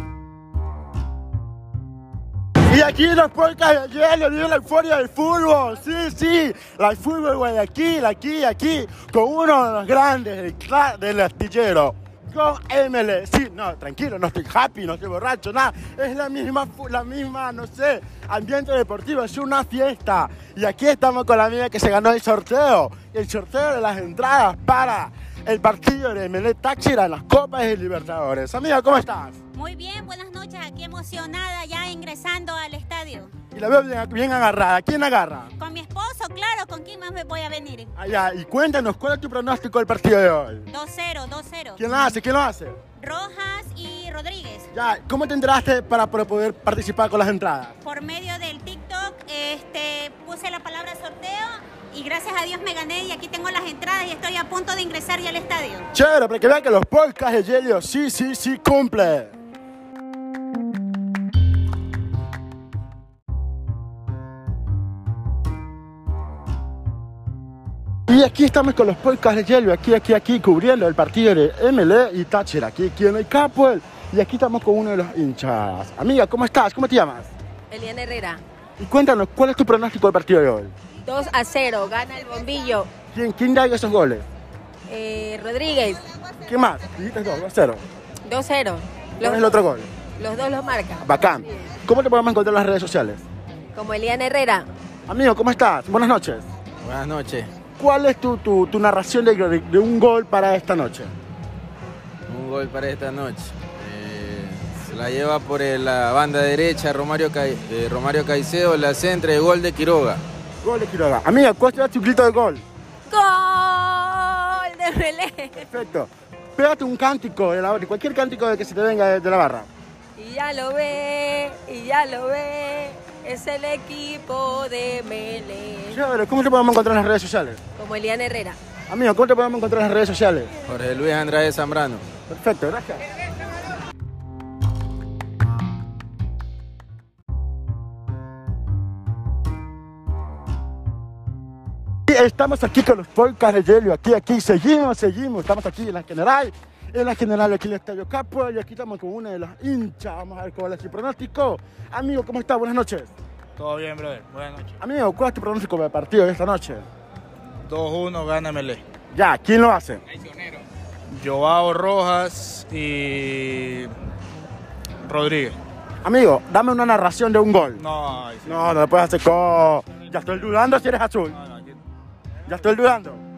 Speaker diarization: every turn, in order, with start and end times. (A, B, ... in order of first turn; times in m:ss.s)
0:02.7-0:29.4 A
0:29.5-0:33.3 B
0:33.5-0:35.5 A
0:35.6-0:37.9 B
0:38.0-0:40.7 A
0:40.7-0:41.8 B
0:41.8-0:42.8 A
0:43.0-0:44.7 B
0:44.7-0:47.8 A
0:47.8-0:55.8 B
0:55.9-0:59.3 A
1:08.1-1:17.3 A
1:17.7-1:18.4 C
1:18.8-1:20.7 A
1:21.0-1:22.9 C
1:23.1-1:24.2 A
1:24.9-1:26.0 C
1:26.4-1:27.8 A
1:28.3-1:29.5 C
1:29.2-1:29.9 A
1:30.2-1:31.1 C
1:31.0-1:33.2 A
1:33.7-1:34.6 C
1:35.1-1:36.5 A
1:36.8-1:37.5 D
1:37.8-1:41.1 A
1:42.3-1:50.2 D
1:50.6-1:52.6 A
1:53.1-1:55.6 C
1:55.6-1:59.7 A
2:00.2-2:06.0 C
2:05.9-2:07.6 A
2:07.8-2:08.6 C
2:08.9-2:10.5 A
2:10.6-2:12.0 D
2:12.3-2:13.0 A
2:22.1-2:33.1 A
2:33.6-2:34.7 E
2:34.8-2:36.8 A
2:37.7-2:38.8 E
2:39.1-2:40.0 A
2:41.2-2:43.8 E
2:45.1-2:45.5 E
2:46.0-2:47.8 A
2:47.9-2:48.4 E
2:48.4-2:51.4 A
2:52.4-2:53.2 A